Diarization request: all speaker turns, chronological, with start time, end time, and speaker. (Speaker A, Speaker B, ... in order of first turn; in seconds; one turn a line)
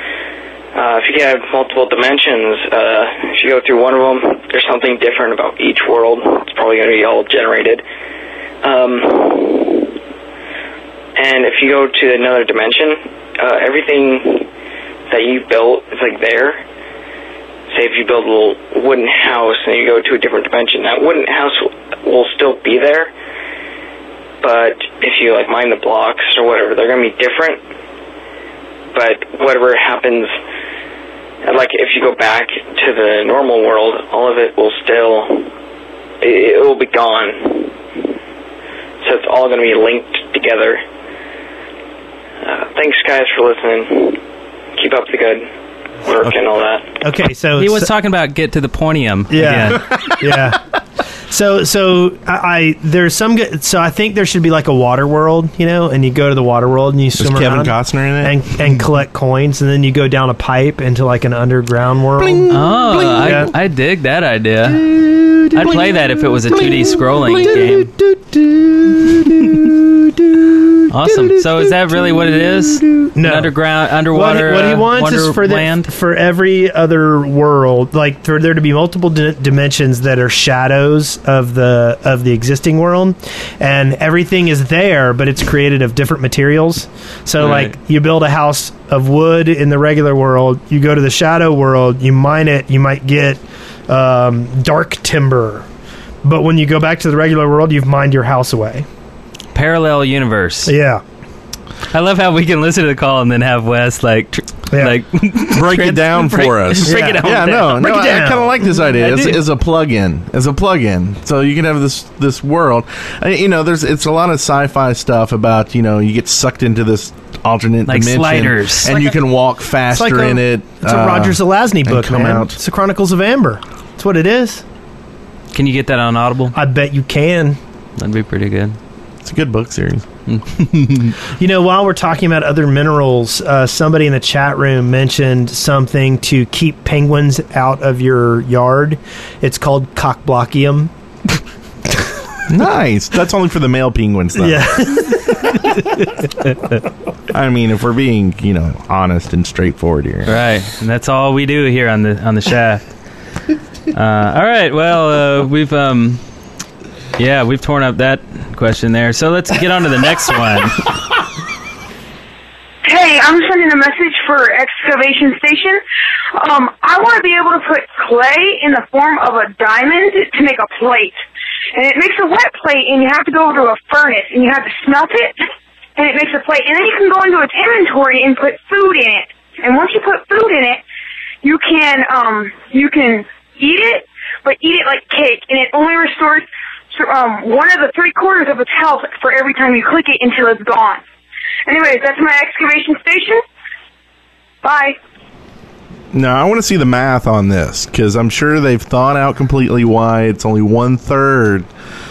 Speaker A: 0.7-7.8
Speaker A: 8.6-9.9
Speaker A: 11.2-14.5
Speaker A: 15.1-16.6
Speaker A: 17.7-23.1
Speaker A: 24.4-27.6
Speaker A: 28.9-30.3
Speaker A: 31.4-35.5
Speaker A: 36.2-37.8
Speaker A: 39.0-40.8
Speaker A: 42.4-44.2
Speaker A: 44.8-45.5
Speaker A: 46.0-46.9
Speaker B: 47.0-47.9
Speaker C: 47.6-49.8
Speaker B: 49.3-50.6
Speaker B: 51.3-62.5
Speaker D: 57.2-58.4
Speaker D: 62.2-63.5
Speaker C: 62.5-64.8
Speaker B: 63.2-63.5
Speaker D: 64.8-68.2
Speaker C: 65.5-67.9
Speaker C: 70.9-75.9
Speaker B: 73.1-95.7
Speaker C: 87.4-87.7
Speaker B: 96.2-98.8
Speaker C: 99.5-100.7
Speaker B: 100.7-101.0
Speaker C: 101.9-108.0
Speaker B: 104.7-105.0
Speaker D: 105.5-122.6
Speaker B: 106.8-108.5
Speaker C: 108.9-109.4
Speaker C: 117.8-119.0
Speaker B: 119.9-124.6
Speaker C: 125.5-126.5
Speaker B: 126.5-127.6
Speaker C: 128.0-128.8
Speaker D: 129.2-130.0
Speaker C: 130.3-131.1
Speaker B: 131.4-140.9
Speaker D: 142.5-144.9
Speaker B: 144.4-145.7
Speaker D: 147.3-150.3
Speaker C: 150.2-152.9
Speaker C: 153.9-156.2
Speaker C: 157.2-160.8
Speaker E: 162.8-165.8
Speaker E: 166.3-171.2
Speaker E: 171.7-175.4
Speaker E: 176.0-180.8
Speaker E: 181.4-191.0
Speaker E: 191.7-193.4
Speaker E: 194.6-195.0
Speaker D: 196.1-201.7